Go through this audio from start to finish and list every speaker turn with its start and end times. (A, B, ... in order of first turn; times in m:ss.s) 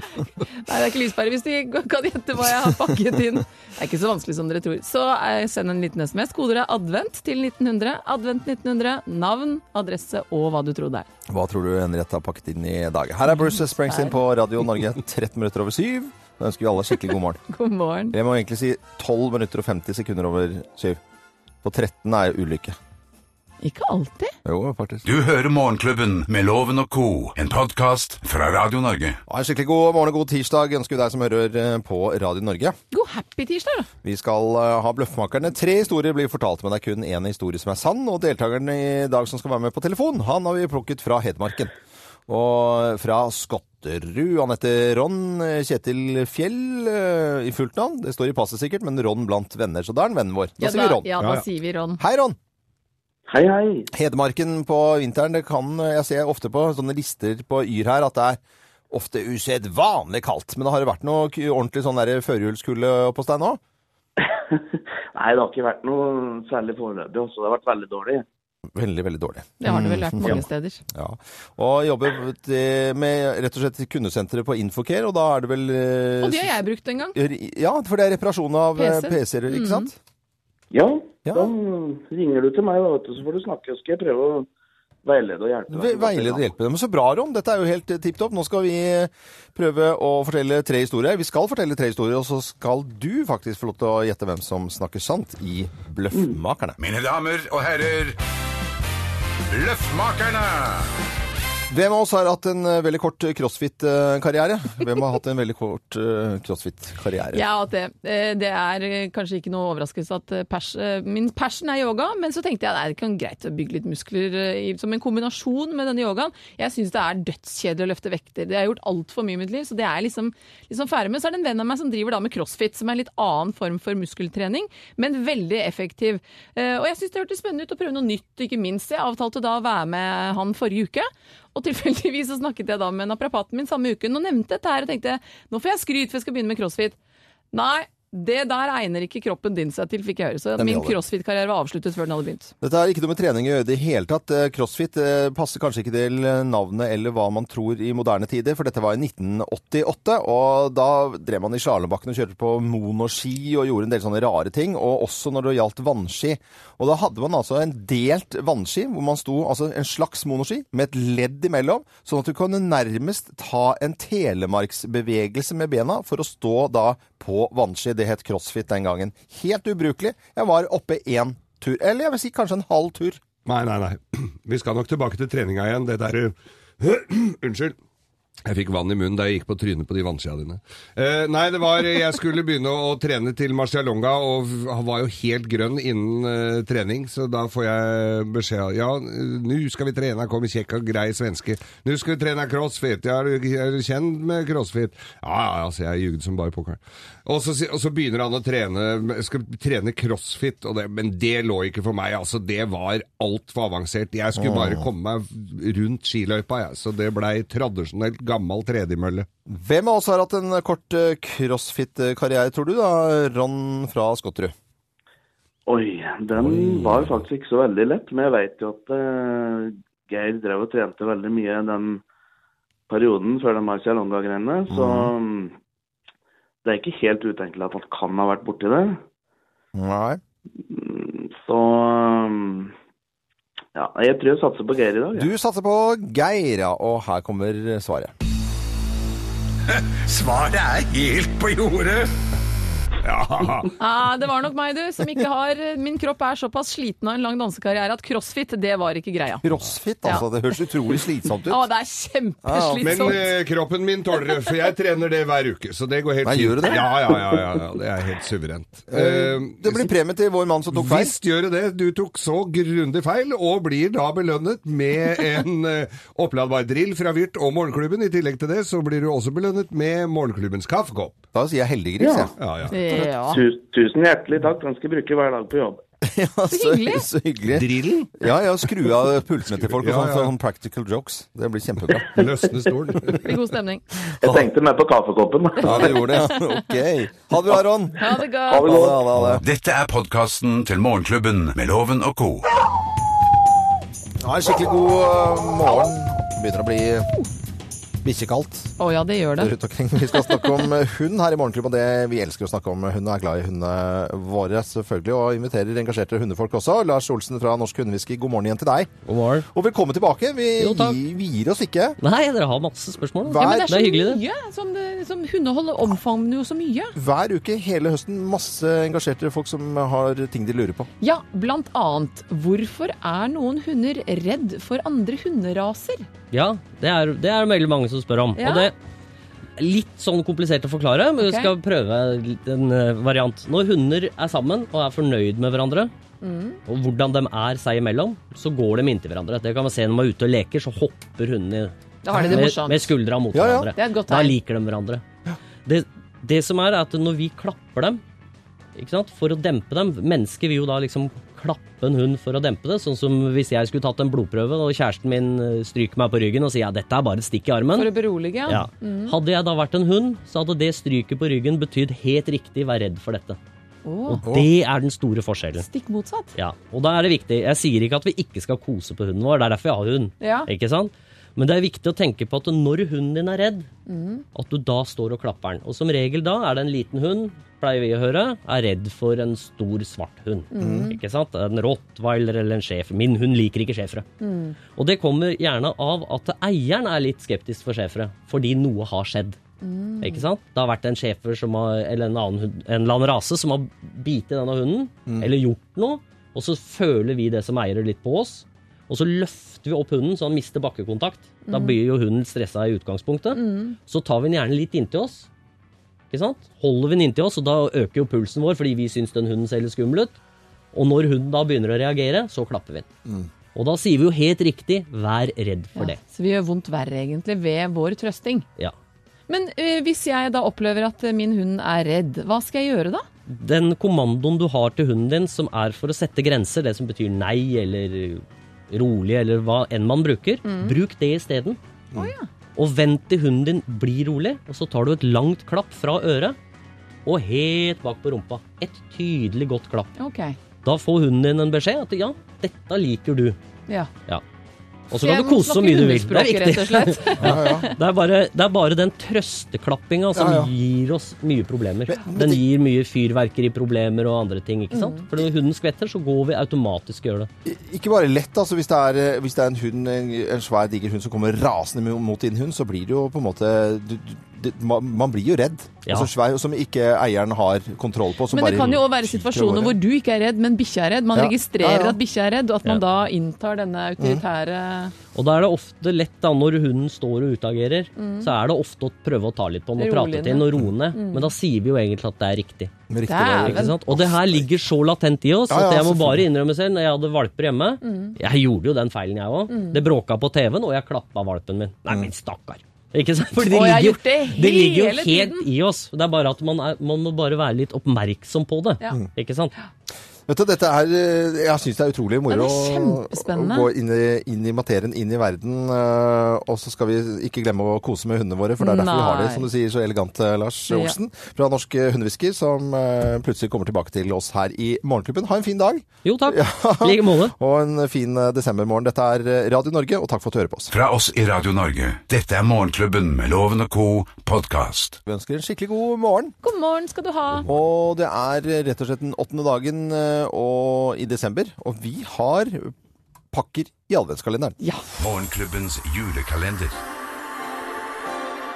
0:00.6-0:11.1 A
0:11.3-0:17.4 B
0:13.3-0:14.2 A
0:17.5-0:18.2 A
0:18.1-0:21.0 B
0:21.6-0:22.8 B
0:23.6-0:24.4 A
0:24.4-0:25.1 B
0:25.0-0:29.2 C
0:29.3-0:32.8 B
0:32.9-0:33.9 A
0:34.0-0:41.7 B
0:42.3-0:51.2 B
0:50.6-0:52.0 A
0:51.2-0:51.4 D
0:52.0-0:52.4 B
0:53.3-0:53.9 E
0:53.9-0:58.4 B
0:58.9-1:03.6 B
1:04.2-1:08.3 E
1:08.7-1:20.0 B
1:09.6-1:10.8 A
1:16.2-1:17.2 A
1:18.8-1:19.9 A
1:20.7-1:24.5 E
1:21.2-1:21.5 B
1:25.0-1:26.5 E
1:25.7-1:36.8 B
1:36.8-1:38.2 C
1:39.5-1:40.9 C
1:41.7-1:47.5 B
1:47.3-2:17.0 A
2:17.5-2:22.5 A
2:20.6-2:21.0 B
2:22.6-2:53.2 B
2:53.5-2:57.8 D
2:58.4-3:29.3 D
3:24.4-3:24.9 B
3:29.5-3:34.5 B
3:35.7-3:42.0 E
3:42.9-3:45.6 E
3:44.7-3:45.1 B
3:46.6-3:49.0 E
3:49.8-3:50.2 B
3:50.7-3:52.7 E
3:53.8-3:55.3 E
3:55.2-3:58.1 B
3:59.9-4:02.1 C
4:03.0-4:03.7 D
4:03.8-4:09.4 A
4:09.4-4:11.7 B
4:11.5-4:13.3 A
4:12.4-4:13.2 B
4:12.8-4:19.9 D
4:16.2-4:17.0 B
4:18.9-4:21.2 B
4:20.7-4:31.2 D
4:31.3-4:32.3 B
4:32.0-4:32.3 E
4:32.4-4:32.8 D
4:32.7-4:33.4 A
4:32.9-4:35.8 E
4:36.0-4:42.1 B
4:36.5-4:37.1 A
4:37.5-4:38.1 D
4:39.5-4:40.3 D
4:42.1-4:43.2 D
4:42.2-4:42.5 E
4:43.2-4:43.8 A
4:44.2-4:46.1 E
4:44.2-4:44.5 B
4:45.6-4:49.4 B
4:45.6-4:46.7 A
4:48.0-4:48.9 A
4:48.5-4:49.1 E
4:49.4-4:52.5 C
4:54.2-4:57.1 B
4:58.0-4:58.8 B
4:58.8-4:59.5 A
4:59.4-5:08.9 B
5:09.1-5:09.5 F
5:09.5-5:12.0 B
5:10.6-5:11.0 F
5:12.0-5:14.2 F
5:13.2-5:13.8 B
5:13.4-5:16.9 A
5:17.0-5:20.9 B
5:21.0-5:26.1 A
5:26.3-5:28.7 F
5:28.4-5:28.7 A
5:29.6-5:35.9 F
5:31.2-5:31.5 A
5:36.2-5:36.6 A
5:36.7-5:45.0 F
5:42.0-5:42.9 A
5:42.1-5:42.5 B
5:43.3-5:43.7 B
5:43.8-5:44.4 A
5:45.6-5:48.0 F
5:48.8-5:57.9 F
5:57.8-5:59.2 A
5:58.5-6:03.4 F
6:03.8-6:04.2 A
6:04.1-6:05.7 F
6:04.2-6:04.5 B
6:05.6-6:06.3 A
6:06.4-6:13.7 F
6:10.2-6:10.5 A
6:13.9-6:14.2 A
6:14.4-6:24.1 F
6:20.5-6:21.0 A
6:20.6-6:20.9 B
6:24.2-6:24.6 A
6:24.7-6:29.4 F
6:29.6-6:30.2 A
6:30.0-6:45.3 F
6:41.5-6:41.8 A
6:43.3-6:43.8 A
6:46.1-6:50.2 F
6:50.7-6:52.9 F
6:53.6-6:56.0 F
6:55.8-6:58.5 A
6:59.3-7:03.1 A
7:03.3-7:11.6 F
7:10.4-7:10.8 A
7:12.0-7:12.3 A
7:12.6-7:16.4 F
7:17.1-7:19.9 F
7:20.0-7:20.4 A
7:20.6-7:23.4 F
7:24.9-7:37.3 F
7:25.0-7:27.7 A
7:27.2-7:27.7 B
7:30.2-7:30.5 B
7:31.9-7:32.4 B
7:34.7-7:35.0 A
7:37.4-7:49.8 B
7:45.9-7:46.1 F
7:48.3-7:55.0 A
7:51.1-7:52.0 B
7:54.0-7:54.2 B
7:55.2-8:02.7 F
7:58.0-7:58.3 A
7:59.8-8:01.3 A
8:02.9-8:04.4 B
8:03.1-8:03.8 A
8:03.4-8:19.5 F
8:05.5-8:06.3 B
8:07.8-8:08.2 A
8:09.5-8:09.8 A
8:13.4-8:15.5 A
8:20.3-8:40.7 B
8:22.3-8:23.7 A
8:28.6-8:29.5 A
8:30.7-8:31.0 A
8:36.0-8:37.4 F
8:40.7-8:45.0 C
8:45.1-8:46.4 B
8:46.4-8:47.5 A
8:47.5-8:52.7 B
8:53.3-8:54.6 B
8:55.0-8:56.8 C